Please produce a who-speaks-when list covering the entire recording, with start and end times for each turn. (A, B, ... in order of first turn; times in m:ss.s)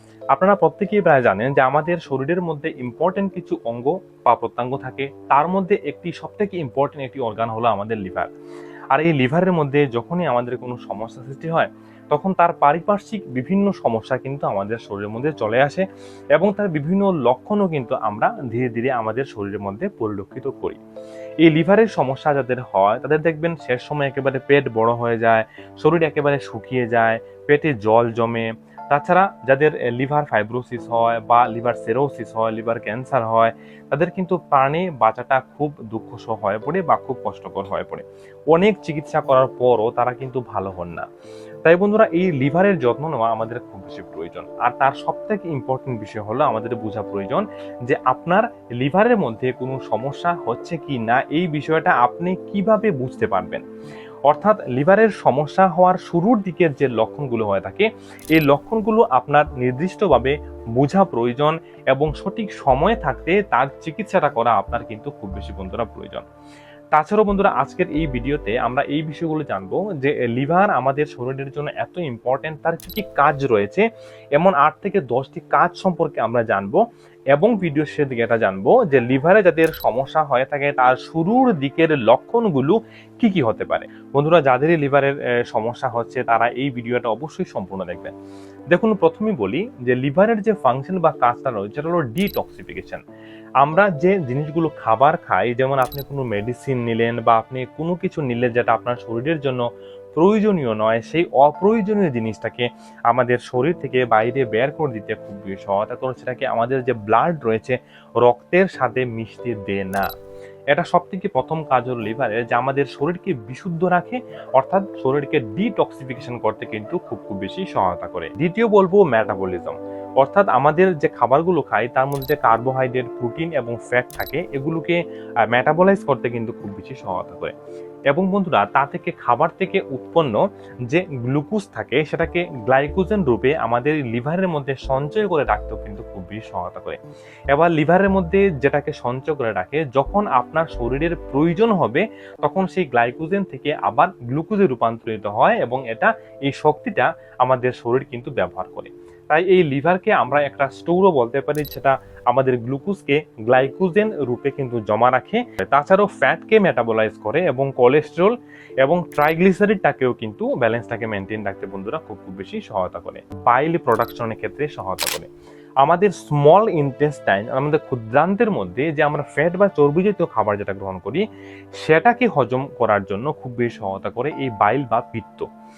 0:00.3-0:08.3 A
0:08.9-0:20.8 A
0:21.4-0:41.1 A
0:41.6-0:53.6 A
0:54.3-1:06.2 A
1:06.9-1:13.8 A
1:14.4-1:28.1 A
1:28.7-1:33.0 A
1:33.6-1:39.6 A
1:40.2-1:50.1 A
1:50.7-2:07.5 A
2:08.1-2:17.0 A
2:17.5-2:45.3 A
2:45.8-2:51.2 A
2:51.8-2:55.5 A